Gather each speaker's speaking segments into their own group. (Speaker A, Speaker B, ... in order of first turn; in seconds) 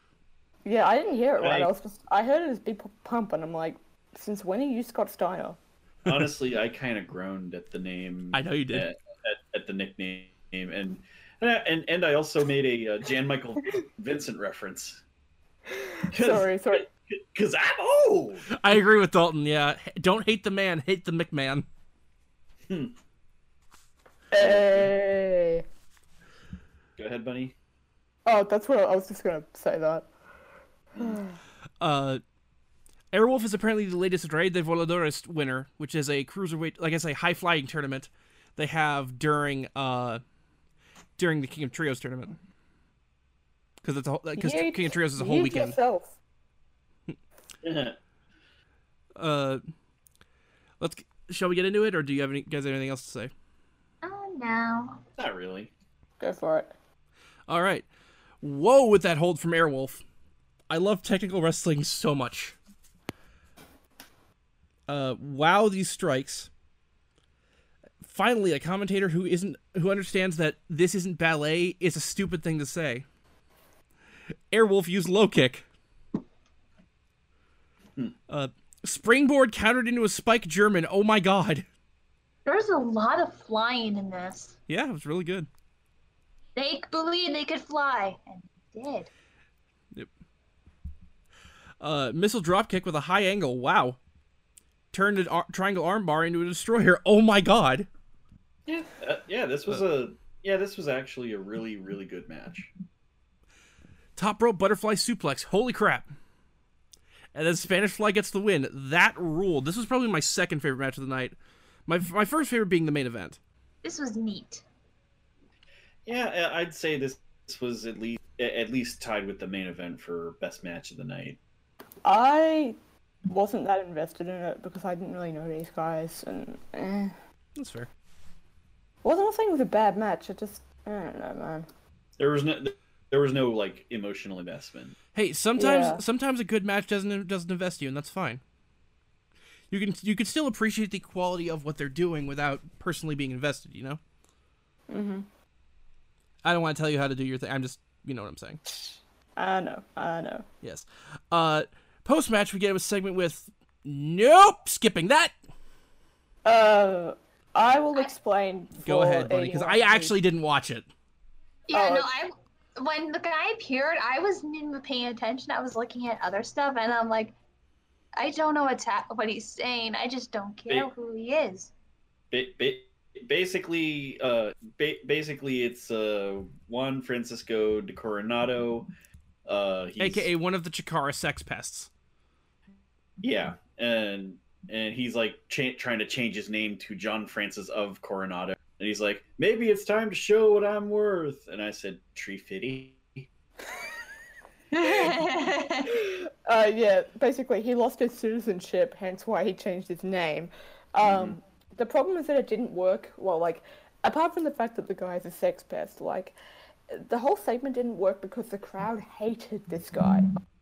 Speaker A: 0.6-5.6, 15.7-16.9, 24.3-25.6, 28.2-30.1, 31.0-31.4, 44.4-46.1, 56.2-56.7, 122.0-127.1, 129.0-131.7, 135.6-136.0, 144.9-145.3, 149.3-150.4, 156.4-160.2, 161.7-162.1, 194.8-195.1, 195.8-206.3, 206.9-210.3
Speaker B: 1.4-1.7, 6.0-15.0, 16.1-18.5, 22.7-22.9, 24.4-24.9, 27.0-27.5, 30.9-31.2, 47.6-48.0, 55.2-55.7, 98.7-102.7, 116.1-121.4, 132.2-134.9, 172.3-178.9, 179.4-180.3, 183.2-193.2, 201.0-201.4
Speaker C: 8.3-8.9, 18.5-21.6, 31.8-32.2, 33.1-40.2, 41.2-42.4, 43.8-45.8, 49.1-49.6, 50.8-53.3, 57.5-57.9, 58.4-60.0, 60.7-62.5, 64.9-66.5, 68.0-73.0, 74.5-75.6, 78.3-81.7, 84.7-85.5, 91.8-94.0, 94.9-97.9, 104.2-106.1, 107.3-111.3, 111.9-113.4, 127.5-127.9, 135.1-138.4, 139.7-144.0, 146.4-148.6, 150.6-155.3, 158.8-160.9, 180.0-181.9
Speaker D: 54.0-55.0, 82.5-84.5, 86.5-89.1, 113.8-114.6, 161.7-167.3, 168.1-171.7, 194.7-196.0